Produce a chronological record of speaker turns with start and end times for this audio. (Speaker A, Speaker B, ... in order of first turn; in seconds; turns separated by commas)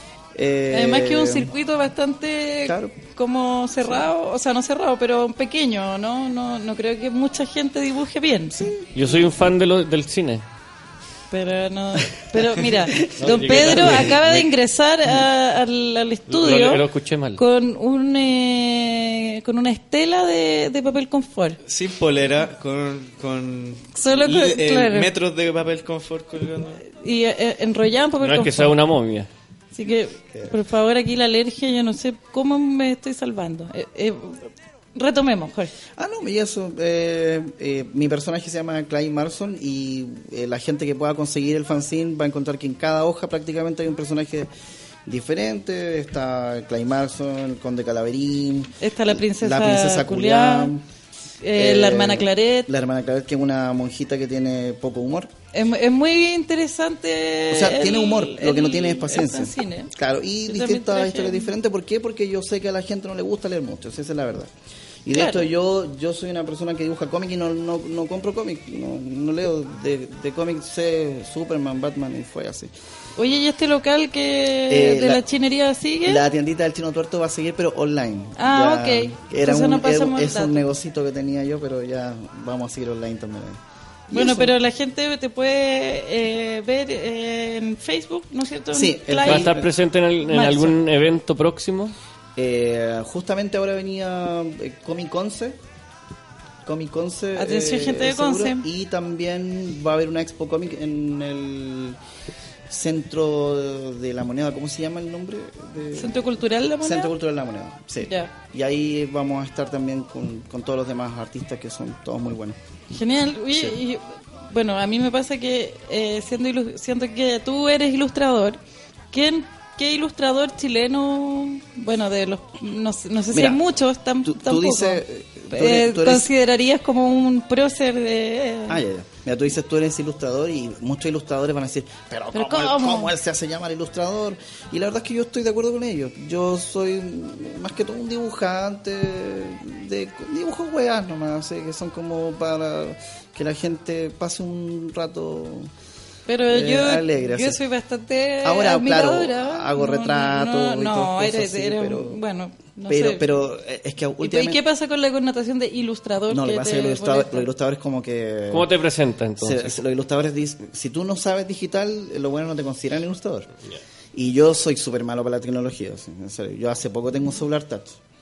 Speaker A: 0.3-1.5, Speaker B: 0.7-8.6, Speaker A: 2.6-3.0, Speaker A: 8.5-9.2, Speaker C: 8.9-10.4, Speaker B: 11.3-16.8, Speaker A: 13.0-14.0, Speaker C: 13.2-14.5, Speaker C: 16.3-17.4, Speaker B: 17.4-21.6, Speaker D: 21.6-26.8, Speaker B: 23.9-25.1, Speaker B: 26.8-28.8, Speaker C: 28.2-29.3, Speaker B: 29.7-35.7, Speaker A: 36.0-44.5, Speaker A: 45.0-50.8, Speaker B: 48.8-50.7, Speaker B: 51.4-52.7, Speaker A: 51.5-55.3, Speaker B: 55.5-59.9, Speaker A: 57.5-64.5, Speaker B: 60.5-61.5, Speaker A: 65.0-72.7, Speaker B: 65.1-65.5, Speaker B: 73.2-76.2, Speaker A: 74.7-75.2, Speaker A: 76.0-84.5, Speaker B: 78.4-80.6, Speaker B: 84.1-89.5, Speaker A: 88.7-89.7, Speaker C: 89.2-91.9, Speaker B: 90.2-90.8, Speaker A: 92.3-95.6, Speaker A: 96.6-102.0, Speaker B: 97.3-98.6, Speaker A: 102.7-112.6, Speaker B: 105.9-107.1, Speaker B: 108.0-108.3, Speaker B: 112.9-118.6, Speaker B: 119.1-128.8, Speaker A: 123.3-123.6, Speaker A: 124.2-126.3, Speaker A: 128.7-145.7, Speaker B: 132.3-133.1, Speaker B: 146.3-153.2, Speaker A: 146.5-147.6, Speaker A: 148.4-152.2, Speaker A: 152.9-154.6, Speaker B: 154.2-157.5, Speaker A: 156.3-158.7, Speaker C: 158.5-159.8, Speaker A: 159.4-163.5, Speaker A: 164.1-168.0